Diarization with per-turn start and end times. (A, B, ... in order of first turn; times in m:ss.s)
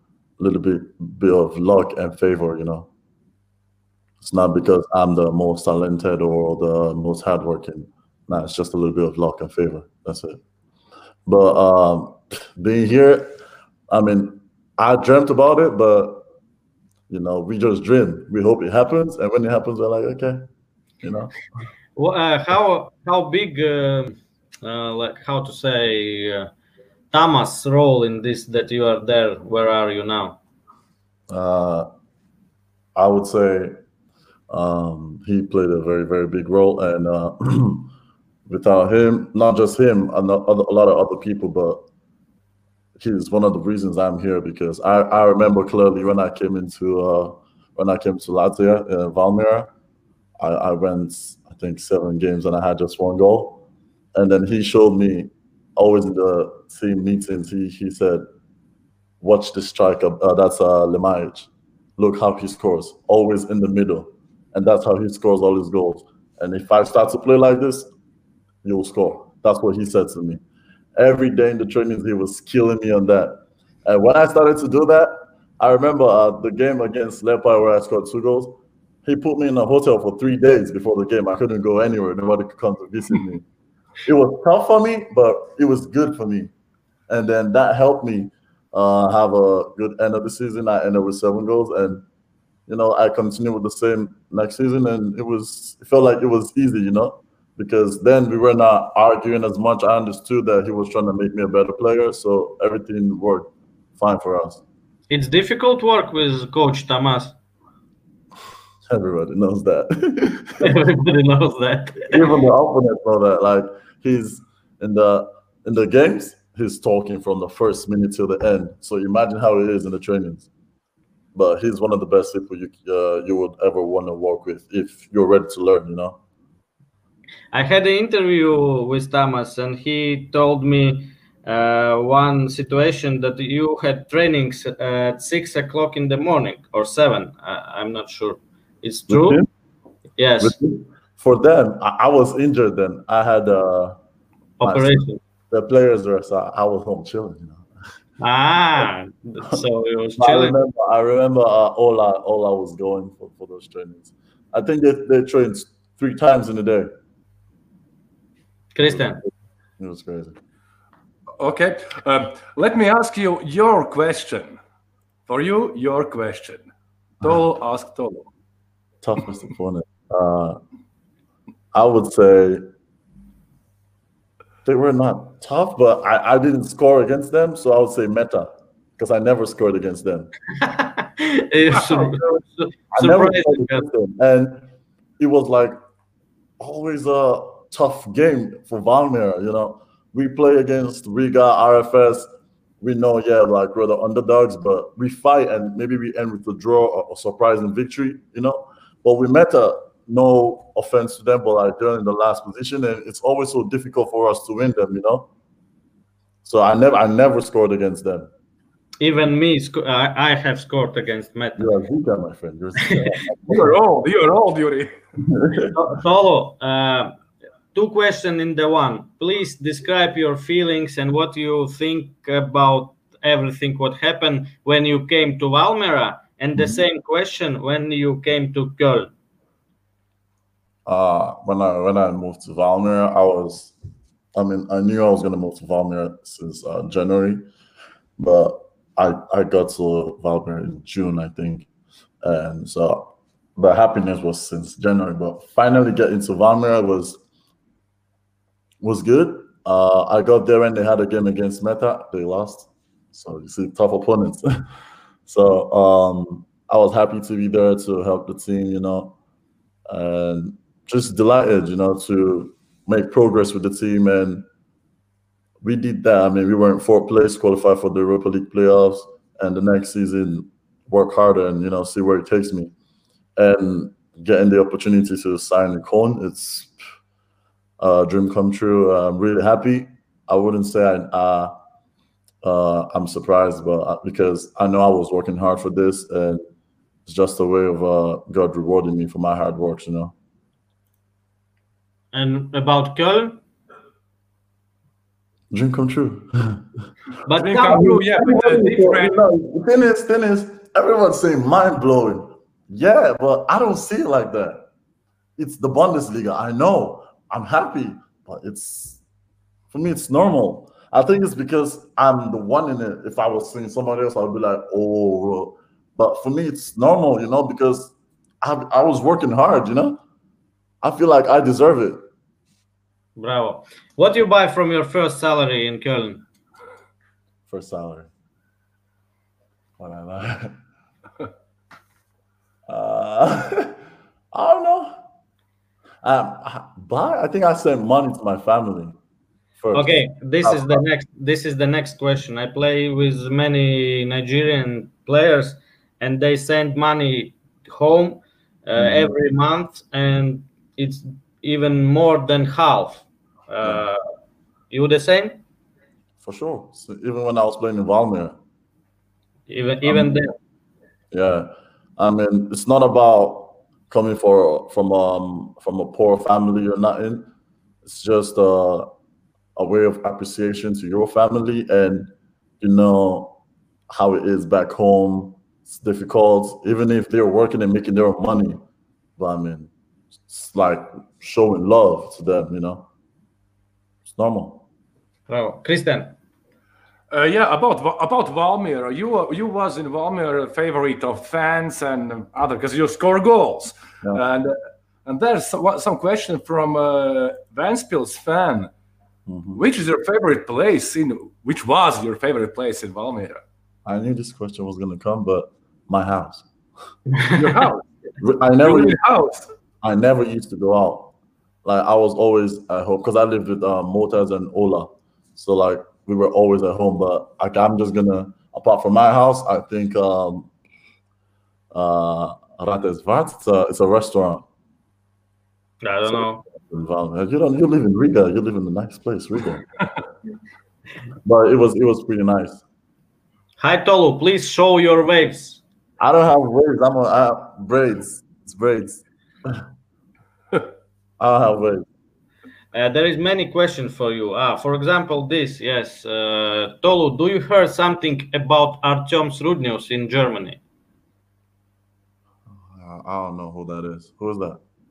0:00.4-0:02.9 A
0:04.2-0:10.4 A
0:11.3-0:13.4 A
0:13.9-0:16.2 A
0:17.1-0:20.5 A
0:21.0-0:21.3 A
0:22.0-0:26.5 B
0:27.1-0:30.4 B
0:31.3-0:31.9 A
0:33.0-0:33.8 A
0:34.5-0:37.9 A
0:38.5-0:41.8 A
0:43.0-0:49.7 A
0:50.4-0:53.6 A
0:54.2-0:58.2 A
0:59.2-1:07.9 A
1:08.6-1:10.4 A
1:11.0-1:23.4 A
1:24.1-1:26.5 A
1:27.1-1:32.0 A
1:32.7-1:44.6 A
1:45.1-1:47.4 B
1:48.9-1:50.7 A
1:50.6-1:52.4 B
1:52.1-2:00.5 A
2:01.4-2:06.2 A
2:07.5-2:19.4 B
2:19.1-2:19.5 A
2:20.2-2:20.6 B
2:20.4-2:24.0 A
2:24.6-2:25.2 B
2:24.6-2:27.6 A
2:28.2-2:30.6 B
2:30.2-2:36.9 A
2:38.8-2:39.2 B
2:39.8-2:40.4 A
2:41.4-2:44.6 C
2:45.3-2:46.7 C
2:47.2-2:48.3 C
2:49.0-2:50.6 A
2:51.7-2:52.6 A
2:54.7-3:00.3 A
3:00.6-3:03.9 B
3:02.9-3:04.7 A
3:05.2-3:05.8 A
3:06.6-3:12.3 A
3:12.8-3:25.3 A
3:26.4-3:28.3 A
3:29.0-3:31.7 B
3:31.6-3:33.7 A
3:32.8-3:33.1 B
3:33.5-3:34.9 C
3:35.2-3:35.8 A
3:35.7-3:37.2 B
3:37.8-3:49.1 B
3:50.9-3:53.8 A
3:54.4-3:57.4 A
3:58.2-4:01.7 A
4:02.2-4:07.2 A
4:08.8-4:14.4 A
4:15.3-4:19.2 A
4:19.9-4:24.5 A
4:25.6-4:32.7 A
4:33.4-4:36.7 A
4:37.8-4:41.6 A
4:42.4-4:46.4 A
4:47.1-4:50.1 A
4:52.1-4:53.4 B
4:55.5-4:56.6 A
4:57.3-4:59.0 B
4:57.4-4:59.1 C
4:57.7-5:04.7 A
5:05.4-5:09.0 A
5:09.7-5:20.0 A
5:20.8-5:22.0 A
5:23.2-5:26.2 B
5:27.5-5:28.1 A
5:29.8-5:30.6 A
5:32.7-5:33.8 A
5:34.3-5:35.0 A
5:36.0-5:39.0 A
5:39.6-5:40.8 A
5:39.7-5:54.0 B
5:48.8-5:49.1 A
5:54.7-5:55.4 B
5:56.2-5:58.4 A
5:59.5-6:00.3 B
5:59.9-6:00.2 A
6:01.1-6:07.3 A
6:07.8-6:08.9 A
6:09.6-6:13.4 A
6:13.9-6:18.6 A
6:19.2-6:19.7 A
6:20.3-6:22.9 A
6:24.1-6:24.6 A
6:25.3-6:26.2 B
6:27.1-6:38.7 C
6:39.3-6:39.6 A
6:39.6-6:43.4 C
6:43.9-6:46.5 A
6:47.4-6:47.8 C
6:48.2-6:49.0 A
6:48.6-6:49.5 C
6:49.8-7:00.5 A
7:01.7-7:04.4 A
7:05.8-7:06.4 B
7:06.1-7:09.6 A
7:11.3-7:12.6 A
7:13.6-7:15.6 B
7:16.0-7:19.6 A
7:21.2-7:21.8 A
7:22.7-7:30.6 B
7:32.5-7:34.6 A